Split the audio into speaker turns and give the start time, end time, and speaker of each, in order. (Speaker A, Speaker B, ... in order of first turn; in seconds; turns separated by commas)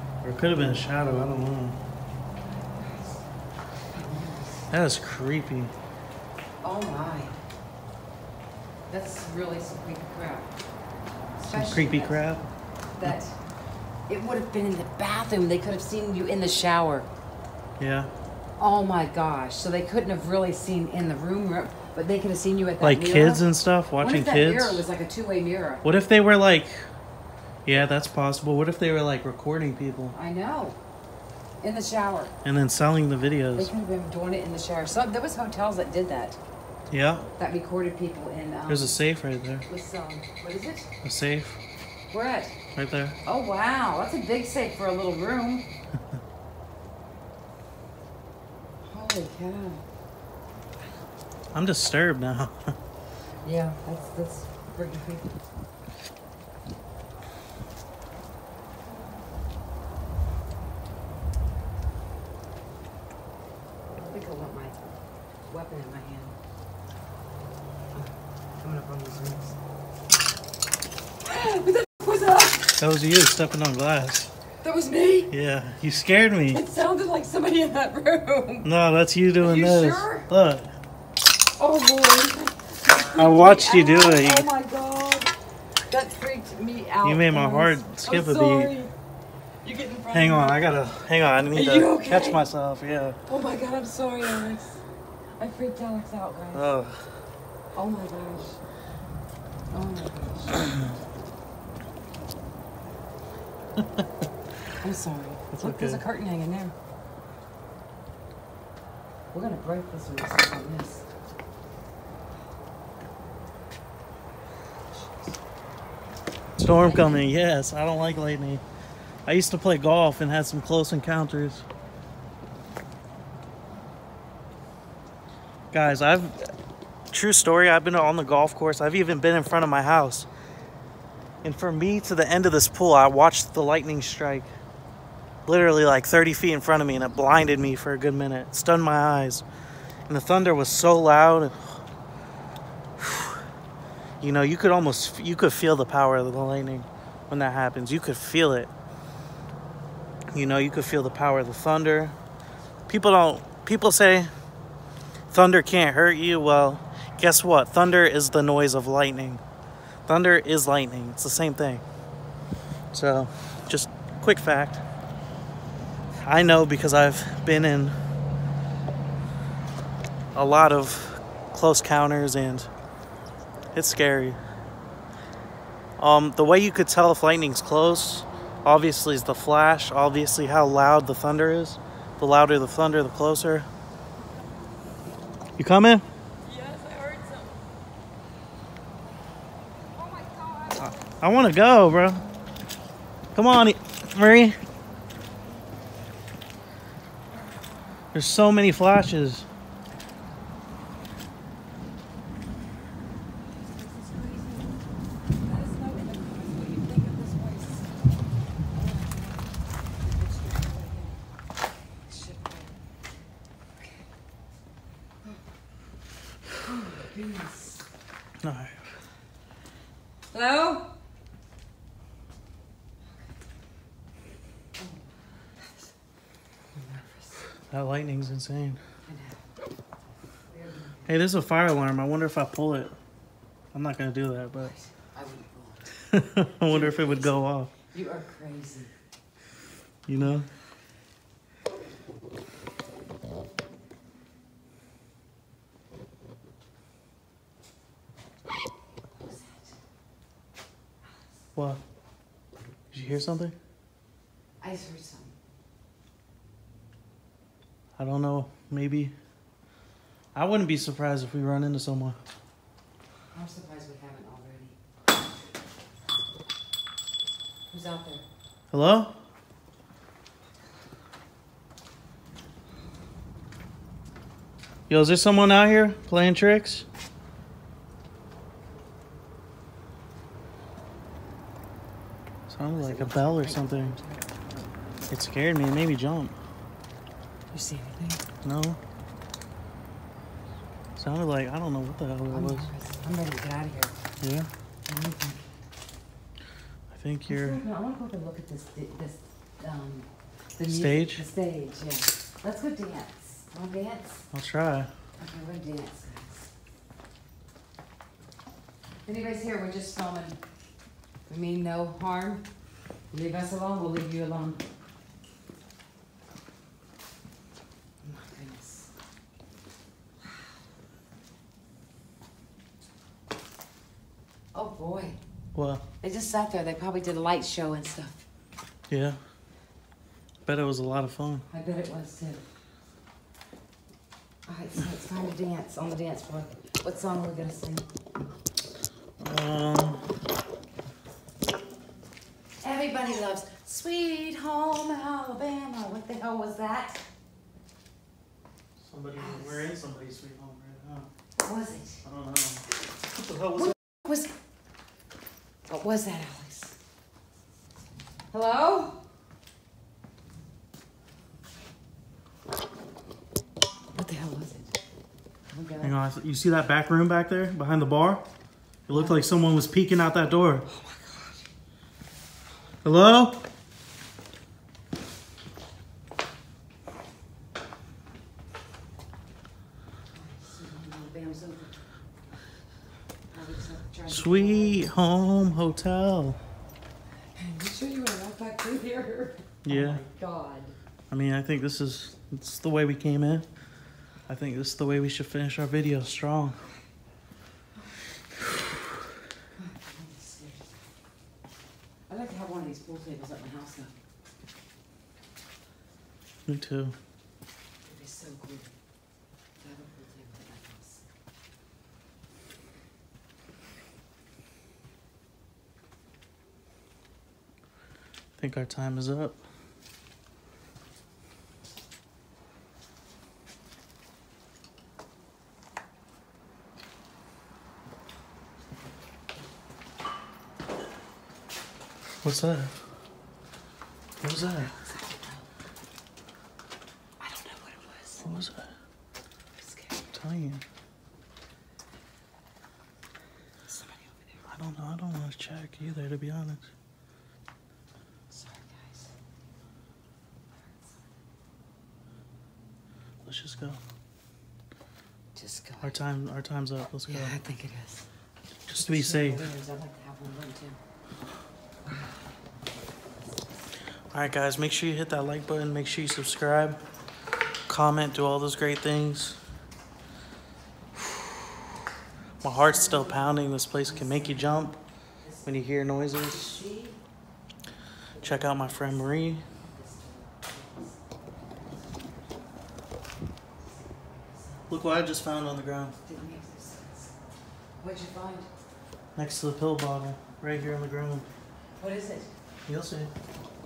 Speaker A: 0.2-1.8, Speaker B: 2.5-3.2, Speaker B: 3.8-4.7, Speaker A: 4.7-5.7, Speaker B: 6.6-7.4, Speaker B: 8.9-10.5, Speaker B: 11.3-12.2, Speaker A: 11.5-12.4, Speaker B: 13.0-13.3, Speaker B: 14.1-17.1, Speaker A: 17.8-18.1, Speaker B: 18.6-23.4, Speaker A: 22.8-24.8, Speaker B: 24.0-25.8, Speaker A: 25.8-26.8, Speaker A: 27.6-30.1, Speaker B: 30.1-30.8, Speaker B: 31.6-32.3, Speaker A: 32.4-33.7, Speaker B: 33.5-36.4, Speaker A: 36.9-37.3, Speaker B: 37.4-39.0, Speaker A: 38.7-39.6, Speaker B: 39.6-40.9, Speaker A: 41.0-41.6, Speaker B: 42.1-42.6, Speaker A: 42.8-43.2, Speaker B: 43.2-45.7, Speaker B: 48.8-49.8, Speaker A: 51.5-52.7, Speaker B: 53.4-55.3, Speaker B: 63.9-64.9, Speaker B: 65.5-66.3, Speaker B: 67.9-69.6, Speaker B: 71.2-72.8, Speaker A: 72.8-74.3, Speaker B: 74.6-75.3, Speaker A: 75.3-76.6, Speaker B: 76.5-78.7, Speaker A: 78.6-80.7, Speaker B: 79.4-80.3, Speaker B: 81.6-85.3, Speaker A: 83.1-84.5, Speaker B: 85.9-88.9, Speaker A: 87.0-88.7, Speaker B: 89.6-90.6, Speaker A: 90.1-93.2, Speaker B: 91.5-92.4, Speaker B: 93.3-94.8, Speaker B: 95.4-96.7, Speaker A: 96.5-97.0, Speaker B: 97.7-98.6, Speaker B: 99.7-101.0, Speaker A: 103.8-104.1, Speaker B: 104.8-106.7, Speaker A: 105.5-106.0, Speaker B: 109.3-111.0, Speaker B: 114.7-115.4, Speaker A: 116.6-118.6, Speaker B: 116.8-117.2, Speaker A: 119.2-121.7, Speaker A: 125.7-126.5, Speaker A: 127.1-130.3, Speaker A: 131.4-134.5, Speaker A: 135.4-139.4, Speaker A: 140.1-141.8, Speaker A: 143.0-143.4, Speaker A: 144.2-148.7, Speaker A: 150.3-152.2, Speaker A: 152.9-154.3, Speaker A: 155.3-159.4, Speaker A: 160.1-161.8, Speaker A: 162.9-164.8, Speaker A: 166.2-167.9, Speaker A: 170.3-172.7, Speaker A: 173.7-174.4, Speaker A: 176.0-183.7, Speaker A: 185.6-186.0, Speaker B: 186.4-187.5, Speaker B: 189.9-191.1, Speaker A: 190.8-192.2, Speaker A: 193.3-194.6, Speaker A: 198.1-199.5, Speaker B: 203.5-204.8, Speaker B: 205.4-207.9, Speaker B: 208.7-211.2, Speaker B: 212.1-212.7, Speaker B: 213.8-214.0, Speaker B: 216.6-217.8, Speaker A: 218.4-218.9, Speaker B: 220.3-220.9, Speaker B: 224.8-225.9, Speaker B: 226.7-227.5, Speaker A: 227.7-228.8, Speaker B: 229.0-229.5, Speaker B: 230.5-231.2, Speaker A: 231.1-232.9, Speaker A: 233.7-234.7, Speaker B: 234.5-236.0, Speaker A: 236.1-237.7, Speaker B: 236.6-238.9, Speaker A: 240.1-240.5, Speaker B: 249.1-249.8, Speaker A: 251.5-251.8, Speaker A: 252.9-253.5, Speaker B: 254.6-255.3, Speaker A: 258.0-259.1, Speaker A: 260.3-262.2, Speaker B: 263.3-264.8, Speaker B: 267.7-268.2, Speaker A: 268.7-269.2, Speaker A: 274.9-276.9, Speaker A: 282.5-284.0, Speaker B: 282.6-285.1, Speaker A: 285.1-286.4, Speaker B: 287.5-288.2, Speaker A: 288.4-288.8, Speaker A: 290.9-292.7, Speaker B: 292.3-293.9, Speaker A: 294.2-294.5, Speaker B: 294.9-295.4, Speaker A: 296.9-297.6, Speaker B: 297.3-304.2, Speaker A: 300.7-301.2, Speaker A: 304.3-304.9, Speaker B: 305.2-306.5, Speaker B: 309.0-310.4, Speaker B: 311.3-312.4, Speaker B: 313.1-314.6, Speaker B: 318.0-318.9, Speaker B: 324.5-325.2, Speaker A: 325.5-325.8, Speaker B: 326.0-328.2, Speaker A: 328.9-329.2, Speaker A: 330.4-331.4, Speaker B: 331.5-332.4, Speaker B: 334.5-337.9, Speaker A: 339.2-340.1, Speaker B: 342.6-347.0, Speaker A: 348.8-351.1, Speaker B: 349.1-349.7, Speaker B: 351.4-352.0, Speaker A: 352.0-353.8, Speaker B: 353.6-354.3, Speaker B: 355.7-356.8, Speaker B: 358.3-359.0, Speaker B: 363.9-364.8, Speaker B: 365.5-365.9, Speaker A: 365.8-368.2, Speaker A: 368.9-370.6, Speaker B: 368.9-369.2, Speaker B: 370.7-371.5, Speaker A: 372.8-373.4, Speaker B: 380.1-381.8, Speaker B: 383.3-384.9, Speaker A: 384.1-386.4, Speaker B: 387.4-390.8, Speaker A: 389.6-390.0, Speaker A: 391.1-393.5, Speaker A: 394.3-396.6, Speaker B: 399.5-400.8, Speaker B: 402.1-403.9, Speaker A: 406.5-406.9, Speaker B: 407.8-408.7, Speaker B: 409.6-411.0, Speaker A: 418.4-419.4, Speaker A: 432.2-432.7, Speaker A: 434.2-434.7, Speaker B: 434.3-435.5, Speaker B: 437.2-438.5, Speaker A: 438.2-438.7, Speaker B: 439.6-440.1, Speaker A: 440.1-440.6, Speaker B: 443.6-444.4, Speaker A: 444.5-446.7, Speaker B: 448.3-449.1, Speaker B: 450.6-450.9, Speaker A: 453.2-453.8, Speaker B: 455.3-455.9, Speaker A: 455.8-457.3, Speaker B: 457.1-458.0, Speaker A: 458.7-459.5, Speaker B: 458.8-460.8, Speaker B: 461.8-462.3, Speaker A: 464.1-466.8, Speaker A: 467.7-469.4, Speaker A: 472.4-474.8, Speaker B: 472.4-474.7, Speaker B: 475.2-475.5, Speaker A: 475.4-476.6, Speaker B: 476.1-477.0, Speaker B: 478.1-482.5, Speaker A: 478.2-479.4, Speaker B: 483.6-485.0, Speaker A: 484.7-485.9, Speaker B: 486.0-487.2, Speaker B: 487.8-488.5, Speaker A: 489.1-491.3, Speaker B: 491.8-492.3, Speaker A: 492.6-493.1